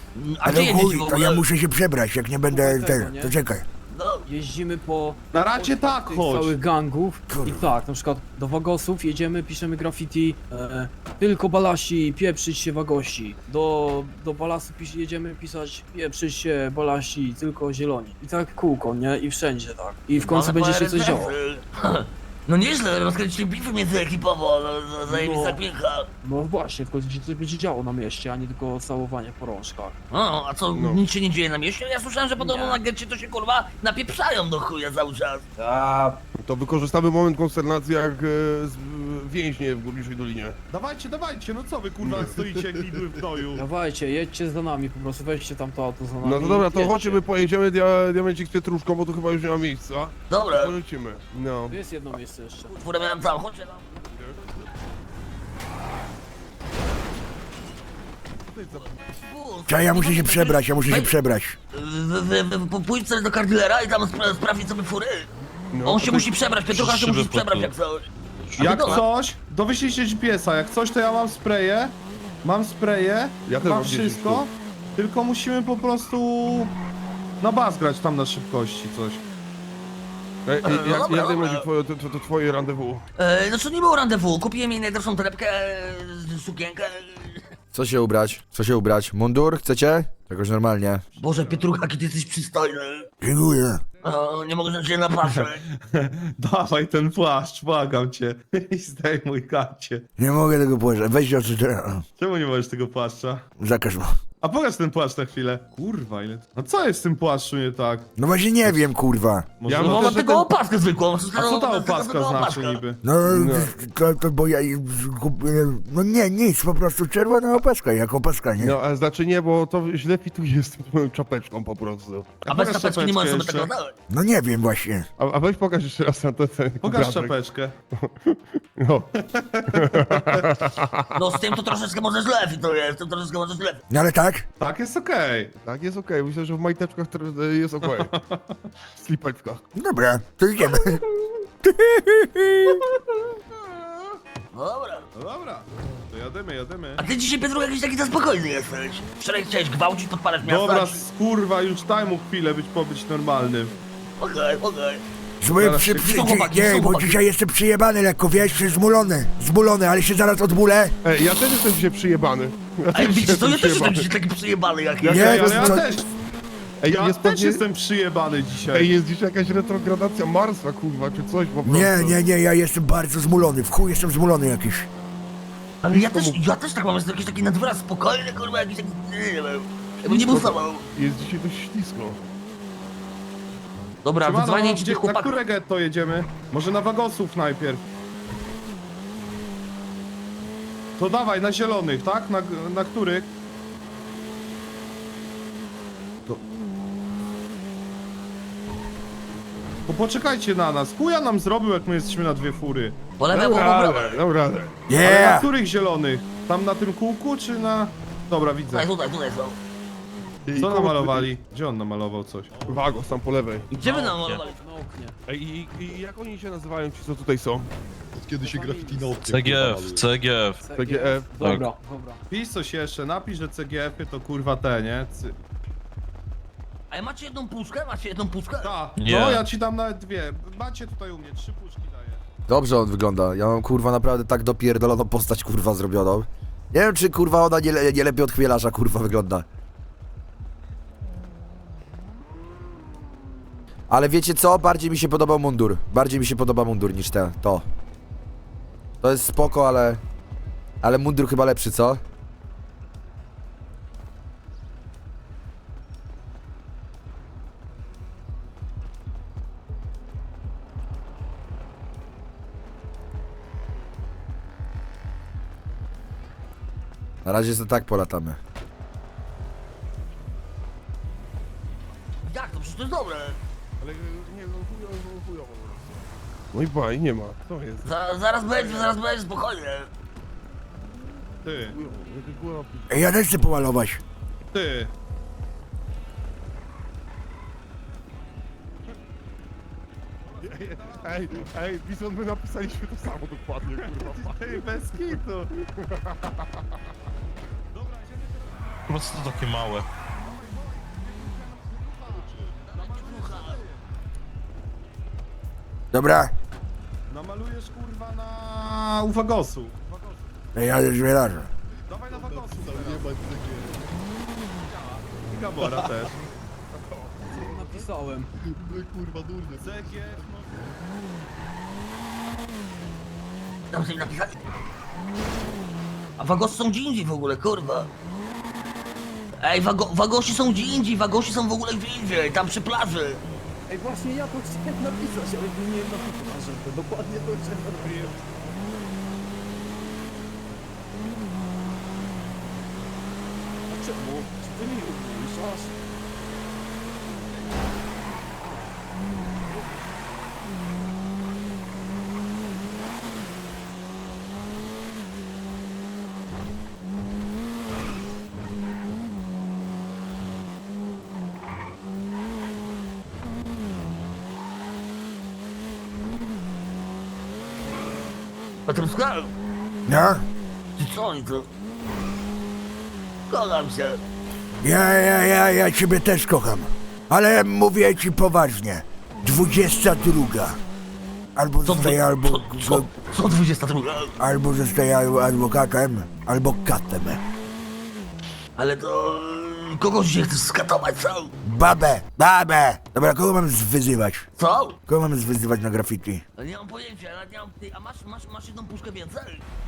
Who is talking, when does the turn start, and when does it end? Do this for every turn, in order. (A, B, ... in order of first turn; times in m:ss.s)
0:00.2-0:01.4 A
0:00.4-0:03.6 B
0:02.5-0:03.4 C
0:03.9-0:04.2 A
0:04.3-0:21.4 C
0:05.3-0:06.6 D
0:07.3-0:07.7 B
0:20.1-0:26.1 A
0:25.1-0:25.6 C
0:26.2-0:30.0 C
0:30.1-0:35.4 A
0:30.7-0:31.0 E
0:32.4-0:32.8 C
0:35.6-0:36.2 C
0:36.4-0:40.6 E
0:40.7-0:43.6 D
0:42.0-0:42.5 E
0:43.5-0:47.2 C
0:46.2-0:51.8 E
0:50.3-0:50.7 A
0:51.7-0:52.8 C
0:52.7-0:53.8 A
0:54.1-0:54.6 E
0:58.5-0:59.1 E
0:58.7-1:01.2 A
0:59.7-1:01.6 B
1:01.7-1:05.3 A
1:05.7-1:06.3 E
1:05.8-1:09.0 A
1:06.8-1:07.7 F
1:07.0-1:07.6 E
1:08.6-1:16.7 D
1:13.4-1:14.5 E
1:17.4-1:19.2 D
1:20.5-1:23.0 E
1:20.6-1:21.6 A
1:23.2-1:27.5 A
1:27.7-1:31.0 G
1:31.2-1:31.7 D
1:31.2-1:33.1 A
1:33.2-1:33.8 B
1:34.0-1:35.6 A
1:35.2-1:40.0 D
1:40.2-1:42.0 B
1:42.2-1:43.4 D
1:43.6-1:44.2 B
1:44.4-1:48.1 D
1:48.2-1:49.6 B
1:49.6-1:50.4 D
1:49.6-1:50.5 E
1:49.7-1:52.8 A
1:51.3-1:53.0 D
1:53.0-1:58.8 B
1:53.2-1:53.7 E
1:58.6-2:02.4 E
2:02.4-2:03.7 D
2:02.5-2:03.9 A
2:04.1-2:05.1 B
2:05.2-2:07.4 E
2:06.8-2:07.8 D
2:07.9-2:09.1 E
2:09.2-2:10.5 D
2:09.7-2:11.2 E
2:11.2-2:13.8 A
2:13.9-2:14.5 B
2:14.6-2:15.6 D
2:15.6-2:18.1 E
2:17.8-2:18.6 D
2:19.0-2:19.6 E
2:19.8-2:21.0 B
2:21.6-2:22.8 B
2:24.5-2:25.1 A
2:25.2-2:27.0 D
2:27.0-2:31.0 A
2:30.4-2:33.8 D
2:34.2-2:35.0 A
2:35.4-2:41.0 B
2:35.6-2:35.9 D
2:35.8-2:37.2 A
2:41.0-2:44.1 E
2:43.0-2:45.6 A
2:45.0-2:46.0 E
2:45.1-2:45.8 B
2:45.2-2:46.0 D
2:46.8-2:47.6 E
2:46.9-2:49.0 D
2:48.7-2:52.2 E
2:51.6-2:54.9 B
2:55.8-3:00.8 A
2:55.9-2:56.4 E
3:00.0-3:02.3 E
3:04.0-3:05.4 A
3:04.2-3:07.8 D
3:11.0-3:13.3 D
3:19.9-3:23.0 D
3:23.2-3:24.2 A
3:23.3-3:24.7 E
3:24.9-3:25.5 B
3:25.0-3:28.9 D
3:28.7-3:29.6 A
3:30.5-3:31.3 E
3:30.6-3:32.5 D
3:32.5-3:32.9 H
3:32.6-3:33.7 E
3:33.7-3:34.6 A
3:33.8-3:35.2 C
3:35.3-3:37.7 E
3:38.2-3:40.1 H
3:38.4-3:39.3 C
3:39.3-3:40.6 F
3:40.6-3:42.2 C
3:40.8-3:41.4 E
3:42.3-3:45.4 D
3:46.9-3:48.8 A
3:48.6-3:52.2 D
3:49.0-3:49.5 F
3:52.5-3:59.5 G
4:03.9-4:07.7 G
4:09.0-4:10.0 G
4:10.8-4:12.0 G
4:27.2-4:28.4 G
4:32.2-4:33.4 A
4:33.8-4:35.9 E
4:36.5-4:39.0 E
4:37.8-4:39.9 A
4:41.4-4:41.8 D
4:41.7-4:43.2 E
4:42.9-4:44.0 B
4:44.5-4:44.9 D
4:50.2-4:51.5 D
4:50.4-4:55.2 E
4:53.8-4:55.5 D
4:55.8-4:56.4 E
4:57.7-4:58.8 D
4:58.9-4:59.9 F
5:00.3-5:03.8 D
5:02.6-5:03.6 A
5:05.9-5:06.3 B
5:07.1-5:10.2 D
5:10.5-5:11.5 B
5:11.9-5:13.1 D
5:12.1-5:13.9 H
5:14.6-5:16.1 D
5:15.6-5:16.0 E
5:16.9-5:17.7 E
5:17.4-5:18.3 C
5:18.4-5:20.7 H
5:19.6-5:20.5 D
5:23.7-5:24.4 A
5:26.2-5:27.9 A
5:29.4-5:33.2 A
5:33.7-5:38.2 C
5:43.7-5:45.7 C
6:08.7-6:09.3 A
6:09.9-6:10.3 B
6:10.8-6:11.5 A
6:13.3-6:14.0 A
6:14.6-6:20.6 B
6:21.4-6:22.9 B
6:21.6-6:24.1 A
6:24.2-6:27.2 B
6:28.6-6:31.3 A
6:31.4-6:34.3 B
6:34.4-6:34.8 A
6:34.9-6:36.2 B
6:36.4-6:39.4 A